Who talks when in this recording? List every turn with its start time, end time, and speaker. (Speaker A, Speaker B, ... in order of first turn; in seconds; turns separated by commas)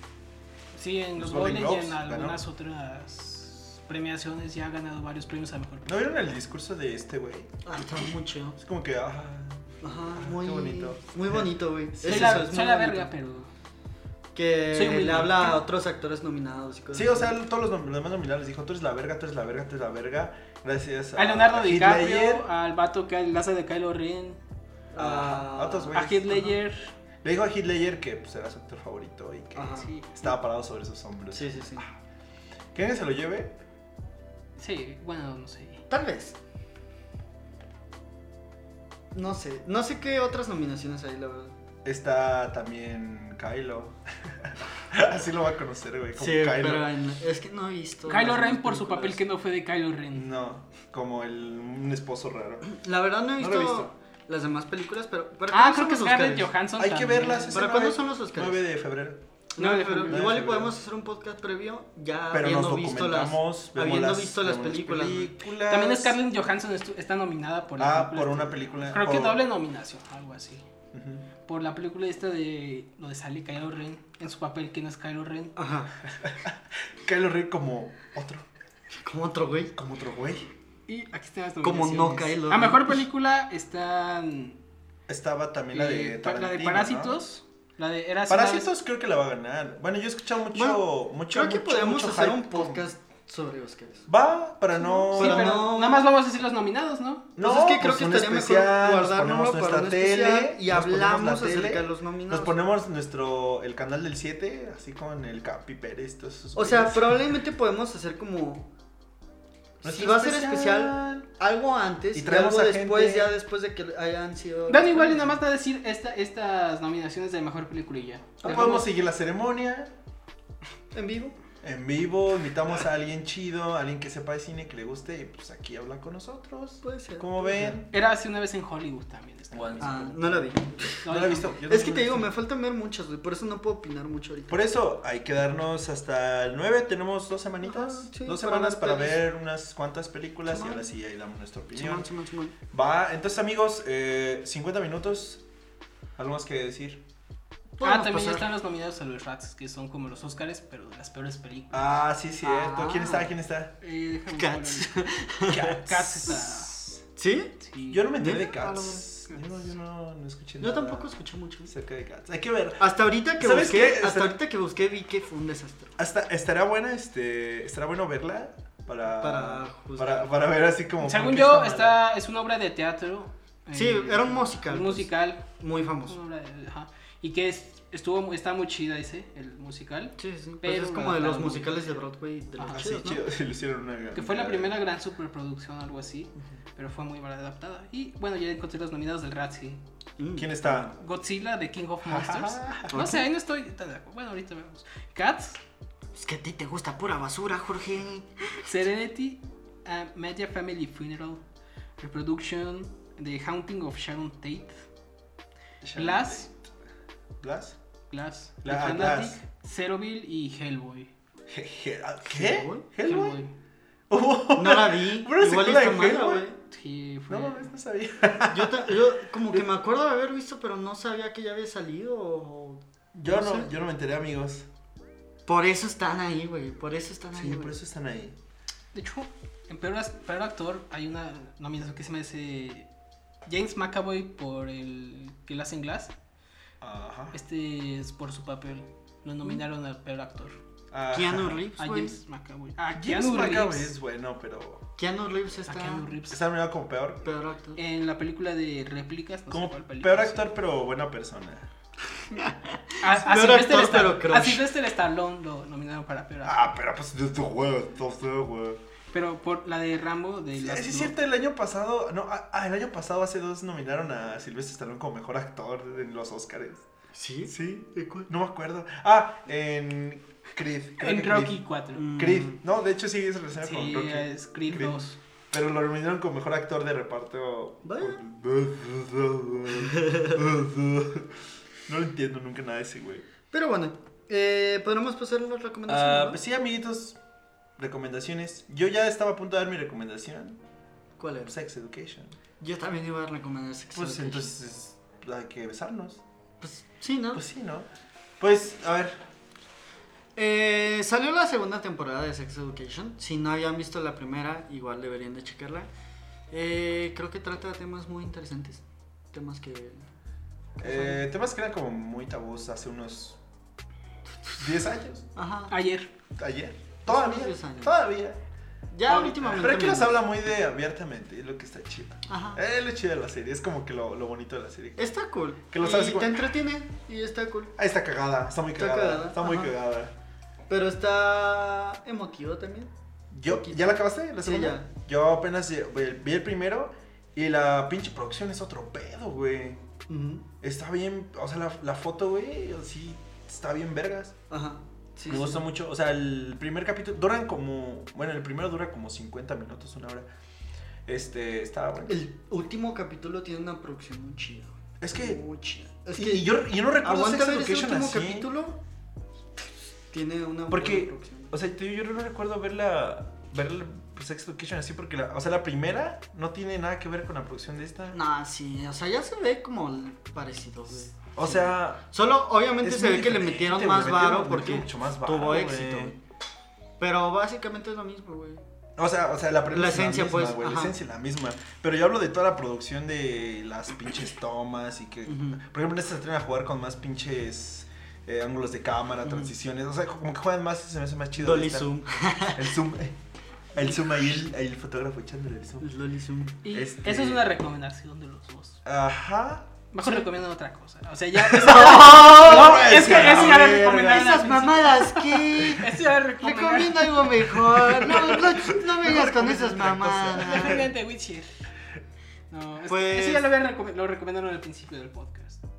Speaker A: 0.7-5.9, Speaker B: 1.2-2.4, Speaker B: 5.8-7.6, Speaker C: 7.6-8.6, Speaker B: 8.6-12.4, Speaker C: 9.8-13.1, Speaker A: 12.0-13.5, Speaker C: 14.3-17.4, Speaker A: 14.7-15.6, Speaker B: 16.9-22.5, Speaker A: 21.1-24.4, Speaker C: 24.9-26.4, Speaker B: 25.0-26.5, Speaker A: 25.9-26.9, Speaker B: 27.2-31.9, Speaker C: 29.6-29.9, Speaker A: 29.8-30.1, Speaker C: 31.3-31.9, Speaker B: 32.7-33.5, Speaker A: 34.6-35.8, Speaker C: 35.9-36.4, Speaker C: 39.1-41.5, Speaker B: 41.8-46.9, Speaker C: 46.1-49.2, Speaker A: 48.1-50.3, Speaker B: 50.1-52.6, Speaker C: 52.6-56.5, Speaker B: 53.4-53.9, Speaker A: 55.5-57.6, Speaker B: 56.8-59.2, Speaker C: 57.5-58.6, Speaker C: 59.5-65.3, Speaker A: 59.6-60.2, Speaker B: 60.1-60.7, Speaker B: 62.3-66.2, Speaker A: 65.7-70.6, Speaker B: 67.8-69.4, Speaker B: 70.9-71.3, Speaker A: 71.5-75.5, Speaker C: 75.5-75.9, Speaker B: 76.1-78.5, Speaker C: 79.0-79.7, Speaker B: 79.8-80.5, Speaker A: 80.9-84.6, Speaker C: 81.6-83.0, Speaker B: 85.1-87.2, Speaker A: 85.7-88.7, Speaker B: 88.3-92.8, Speaker C: 90.5-94.1, Speaker B: 94.1-95.6, Speaker C: 94.8-96.1, Speaker A: 95.0-97.3, Speaker B: 97.4-107.2, Speaker C: 97.4-102.6, Speaker C: 106.5-108.7, Speaker B: 109.8-111.3, Speaker C: 109.8-115.4, Speaker B: 112.1-113.3, Speaker A: 114.7-118.9, Speaker B: 118.4-119.9, Speaker C: 120.9-121.4, Speaker B: 121.6-127.9, Speaker C: 126.8-127.8, Speaker A: 127.9-130.1, Speaker B: 129.5-130.1, Speaker C: 129.8-131.1, Speaker A: 131.0-131.6, Speaker B: 131.0-132.3, Speaker C: 131.7-134.6, Speaker B: 134.5-142.1, Speaker C: 137.6-139.2, Speaker C: 140.5-140.9, Speaker C: 141.7-142.5, Speaker B: 142.7-145.4, Speaker B: 146.2-147.0, Speaker C: 147.8-148.5, Speaker A: 147.8-152.0, Speaker B: 151.7-153.7, Speaker C: 152.4-153.3, Speaker A: 153.8-156.9, Speaker C: 154.3-156.4, Speaker C: 157.2-157.6, Speaker A: 157.6-158.0, Speaker B: 157.9-164.4, Speaker C: 158.1-159.1, Speaker C: 160.6-161.7, Speaker C: 162.8-166.0, Speaker B: 166.0-172.0, Speaker C: 169.2-170.3, Speaker A: 171.0-175.5, Speaker C: 173.7-176.2, Speaker A: 176.1-182.0, Speaker C: 180.2-183.2, Speaker A: 182.6-182.9, Speaker B: 182.7-184.8, Speaker A: 184.1-189.8, Speaker C: 190.2-190.9, Speaker B: 190.4-190.9, Speaker A: 190.7-195.6, Speaker B: 192.0-193.1, Speaker C: 192.9-193.2, Speaker C: 196.1-198.6, Speaker A: 198.6-201.4, Speaker A: 202.0-204.8, Speaker B: 205.8-206.7, Speaker A: 205.9-206.5, Speaker B: 207.4-207.8, Speaker A: 208.1-211.1, Speaker B: 208.6-209.4, Speaker B: 211.5-213.4, Speaker C: 212.2-212.8, Speaker A: 213.0-213.5, Speaker B: 214.1-216.4, Speaker C: 214.5-216.6, Speaker A: 216.7-217.7, Speaker B: 217.3-219.0, Speaker C: 218.5-223.7, Speaker B: 223.1-224.7, Speaker C: 225.4-227.8, Speaker B: 227.3-228.4, Speaker A: 228.9-232.9, Speaker A: 233.4-236.1, Speaker B: 236.8-237.4, Speaker A: 237.3-240.6, Speaker B: 240.9-241.6, Speaker C: 241.1-242.2, Speaker A: 241.8-243.9, Speaker B: 242.9-244.8, Speaker C: 245.0-246.2, Speaker A: 245.7-246.4, Speaker B: 246.3-247.2, Speaker C: 247.2-247.8, Speaker A: 247.8-250.5, Speaker B: 249.5-251.7, Speaker C: 252.3-254.7, Speaker A: 253.0-256.7, Speaker B: 256.4-258.8, Speaker A: 259.1-261.1, Speaker B: 260.6-266.9, Speaker C: 267.1-268.3, Speaker B: 267.5-271.6, Speaker A: 271.0-272.1, Speaker C: 271.9-272.6, Speaker B: 272.1-281.3, Speaker A: 273.6-275.2, Speaker C: 277.8-278.2, Speaker C: 279.7-280.4, Speaker B: 281.9-283.2, Speaker C: 283.5-286.4, Speaker B: 285.9-287.2, Speaker B: 287.8-290.6, Speaker C: 291.2-291.6, Speaker B: 291.4-292.4, Speaker C: 292.6-294.5, Speaker B: 293.9-296.2, Speaker C: 296.6-297.4, Speaker B: 297.3-297.9, Speaker B: 298.4-299.2, Speaker C: 300.4-305.9, Speaker C: 306.5-310.1, Speaker C: 310.8-311.2, Speaker B: 310.8-313.4, Speaker B: 314.6-315.3, Speaker C: 315.3-315.7, Speaker A: 315.7-316.1, Speaker B: 316.4-318.4, Speaker C: 317.1-317.9, Speaker C: 318.9-320.2, Speaker A: 319.1-319.6, Speaker B: 319.4-325.1, Speaker C: 322.3-322.6, Speaker C: 325.0-327.7, Speaker B: 325.7-326.4, Speaker B: 327.8-330.1, Speaker C: 328.8-329.7, Speaker C: 330.7-332.9, Speaker B: 333.3-339.8, Speaker C: 333.5-334.9, Speaker C: 340.1-340.4, Speaker B: 340.6-344.4, Speaker C: 344.5-345.6, Speaker B: 345.3-350.3, Speaker B: 351.1-352.2, Speaker C: 352.1-358.8, Speaker B: 355.0-355.4, Speaker B: 356.1-358.5, Speaker C: 359.6-361.5, Speaker B: 360.7-368.2, Speaker C: 368.1-376.2, Speaker B: 371.3-372.0, Speaker B: 372.8-376.1, Speaker C: 377.0-378.6, Speaker B: 379.0-391.9, Speaker C: 379.7-380.9, Speaker C: 385.2-385.6, Speaker C: 389.2-389.5, Speaker C: 391.4-392.7, Speaker B: 392.5-393.2, Speaker B: 393.7-395.8, Speaker C: 393.8-394.3, Speaker C: 395.8-396.6, Speaker A: 396.6-398.8, Speaker B: 396.7-397.4, Speaker B: 398.8-399.7, Speaker A: 399.9-407.3, Speaker B: 401.4-404.4, Speaker C: 401.6-410.9, Speaker B: 407.7-410.9, Speaker A: 410.3-411.7, Speaker A: 412.5-415.6, Speaker C: 412.8-413.5